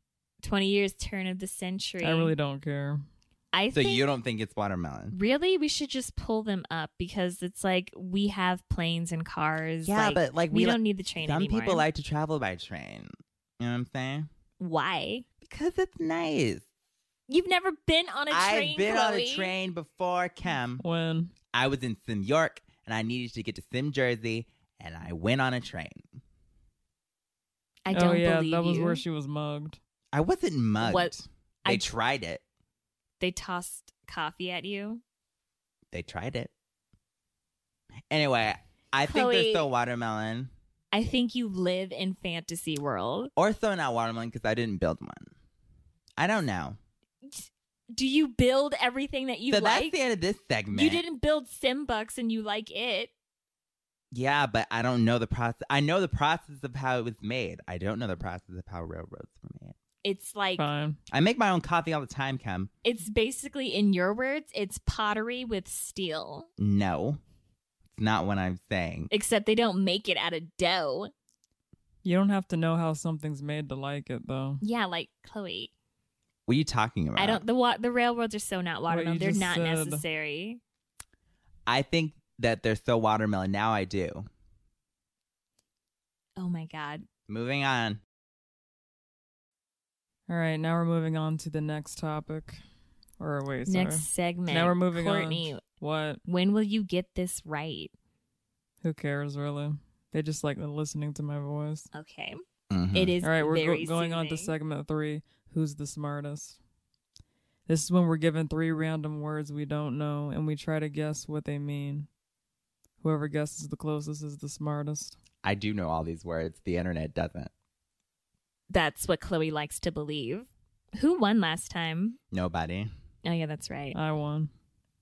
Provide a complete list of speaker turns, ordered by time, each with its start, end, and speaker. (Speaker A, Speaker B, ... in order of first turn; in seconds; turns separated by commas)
Speaker A: 0.4-2.3, Speaker B: 2.0-3.0, Speaker A: 3.5-4.0, Speaker C: 3.7-5.2, Speaker A: 5.1-11.8, Speaker C: 9.8-14.3, Speaker A: 14.6-15.3, Speaker C: 15.4-16.6, Speaker A: 17.3-19.5, Speaker C: 18.3-20.8, Speaker B: 20.8-21.3, Speaker C: 21.5-26.1, Speaker A: 27.9-29.0, Speaker B: 27.9-29.8, Speaker C: 30.1-32.4, Speaker A: 30.8-31.9, Speaker A: 33.2-35.0, Speaker C: 35.9-36.5, Speaker C: 38.1-40.5, Speaker A: 39.0-39.7, Speaker A: 40.9-43.3, Speaker C: 43.4-45.3, Speaker C: 46.2-46.8, Speaker A: 47.2-50.0, Speaker C: 49.5-51.0, Speaker A: 50.7-53.1, Speaker C: 54.1-59.8, Speaker A: 60.0-60.7, Speaker B: 60.6-61.0, Speaker C: 61.1-62.7, Speaker A: 62.8-66.5, Speaker C: 66.6-67.2, Speaker C: 67.9-69.1, Speaker A: 69.1-71.1, Speaker B: 72.0-74.6, Speaker A: 74.6-75.7, Speaker C: 76.5-77.4, Speaker A: 77.2-80.6, Speaker B: 78.9-80.0, Speaker C: 81.7-84.3, Speaker A: 86.4-87.1, Speaker C: 87.3-88.0, Speaker B: 90.3-92.6, Speaker B: 93.2-96.2, Speaker A: 93.7-95.6, Speaker A: 96.2-97.9, Speaker B: 98.8-101.9, Speaker A: 101.9-102.4, Speaker C: 102.7-103.2, Speaker A: 102.9-104.5, Speaker B: 103.2-106.6, Speaker B: 107.7-112.1, Speaker B: 113.0-115.2, Speaker C: 115.4-117.5, Speaker A: 118.7-122.2, Speaker C: 122.3-122.9, Speaker A: 123.2-124.0, Speaker B: 123.9-124.5